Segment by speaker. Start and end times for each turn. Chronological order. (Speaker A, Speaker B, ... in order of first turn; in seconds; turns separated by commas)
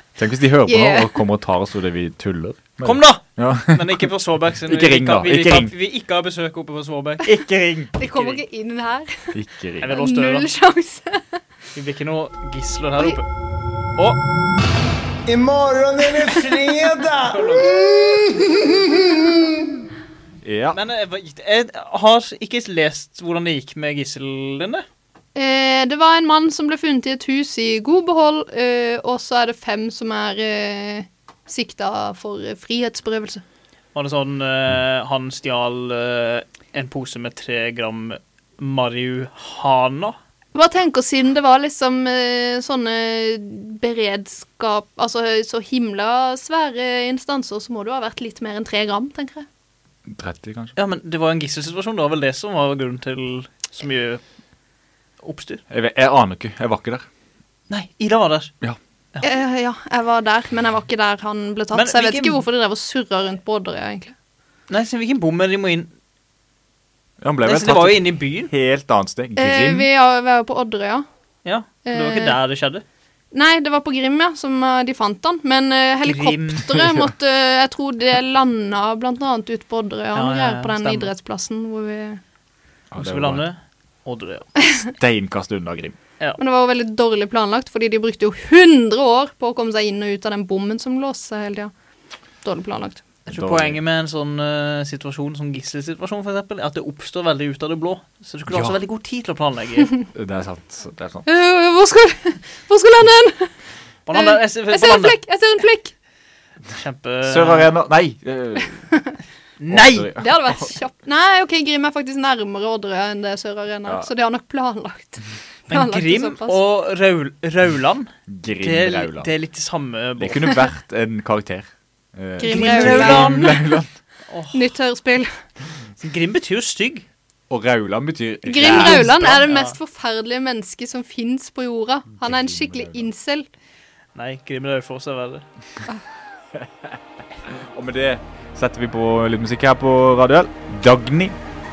Speaker A: 0.2-4.1, Speaker B: 0.7-1.2, Speaker C: 2.8-7.3, Speaker A: 4.7-5.7, Speaker A: 7.2-7.9, Speaker C: 8.0-8.4, Speaker B: 8.0-11.4, Speaker A: 9.3-9.9, Speaker C: 9.8-10.5, Speaker C: 11.8-13.3, Speaker C: 14.0-14.2, Speaker D: 15.3-19.8, Speaker C: 16.2-16.6, Speaker C: 17.2-17.8, Speaker A: 20.4-20.8, Speaker C: 20.7-24.9, Speaker B: 25.4-33.4, Speaker C: 34.0-40.2, Speaker B: 40.5-49.5, Speaker A: 50.1-50.8, Speaker C: 50.8-54.2, Speaker C: 55.2-55.6, Speaker A: 55.7-57.1, Speaker C: 57.7-58.5, Speaker B: 59.2-64.1, Speaker C: 61.7-62.4, Speaker C: 64.7-65.9, Speaker A: 67.2-69.9, Speaker C: 67.5-68.5, Speaker B: 69.4-71.0, Speaker C: 71.5-72.8, Speaker B: 71.9-72.4, Speaker B: 73.3-82.2, Speaker C: 76.0-76.8, Speaker C: 80.1-81.1, Speaker A: 82.9-83.5, Speaker C: 83.0-84.5, Speaker A: 84.9-86.0, Speaker B: 86.4-91.7, Speaker B: 92.4-93.0, Speaker C: 93.3-99.9, Speaker A: 93.3-93.8, Speaker A: 98.5-98.8, Speaker A: 100.1-101.2, Speaker B: 101.3-103.5, Speaker C: 104.1-105.2, Speaker B: 104.1-105.9, Speaker C: 106.7-107.7, Speaker A: 107.2-108.9, Speaker C: 109.6-110.1, Speaker A: 109.7-110.7, Speaker B: 110.2-116.6, Speaker C: 115.7-120.7, Speaker A: 118.3-119.3, Speaker A: 120.2-123.9, Speaker B: 122.4-123.8, Speaker C: 122.4-123.6, Speaker C: 124.3-124.7, Speaker B: 124.5-125.3, Speaker C: 126.0-127.1, Speaker A: 127.5-129.3, Speaker B: 128.5-133.5, Speaker C: 128.6-129.8, Speaker A: 132.2-133.1, Speaker C: 134.2-135.4, Speaker A: 136.5-141.4